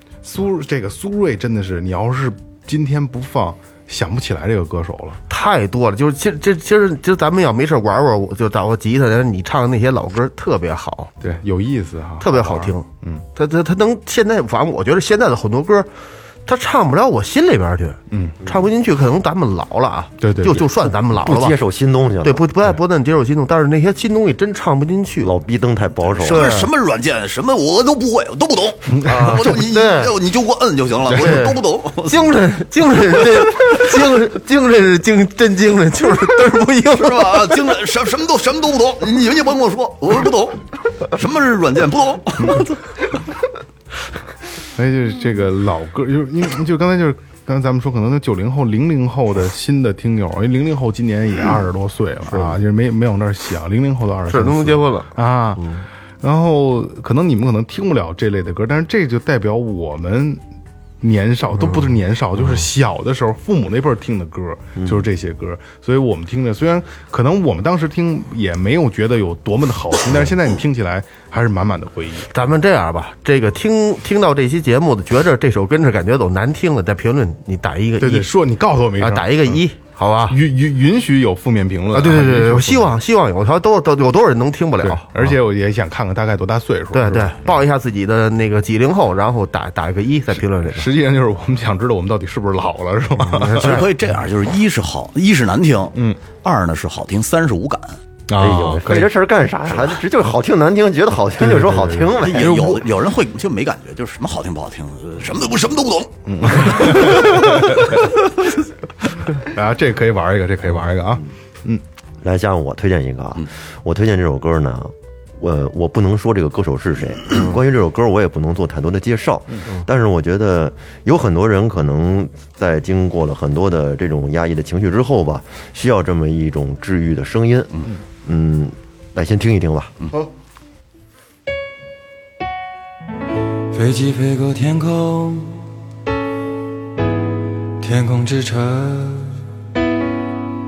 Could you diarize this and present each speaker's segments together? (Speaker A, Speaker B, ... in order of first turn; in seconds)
Speaker A: 0.2-5.2, 11.2-13.2, 18.1-18.4, 20.2-20.7, 29.0-29.4, 44.8-55.7, 56.2-60.4, 61.0-72.3, 78.0-79.6, 80.3-83.0, 84.8-87.4, 90.7-93.8, 98.3-99.1, 101.4-102.1, 106.3-108.5, 109.2-111.8
Speaker B: 5.3-11.1, 12.2-15.9, 16.5-21.6, 22.2-25.3, 26.3-26.7, 29.6-30.1, 31.1-37.6, 52.3-52.6, 54.3-55.9, 61.5-62.7, 72.3-78.3, 79.0-80.4, 81.9-85.3, 86.9-90.9, 93.2-93.9, 117.3-117.6
Speaker C: 21.2-22.4, 25.2-26.5, 29.1-29.4, 64.8-65.1, 98.4-102.8, 112.2-129.9
Speaker D: 26.2-32.3, 36.9-42.8, 93.6-98.0, 102.2-107.5
Speaker E: 133.7-135.7, 137.8-139.4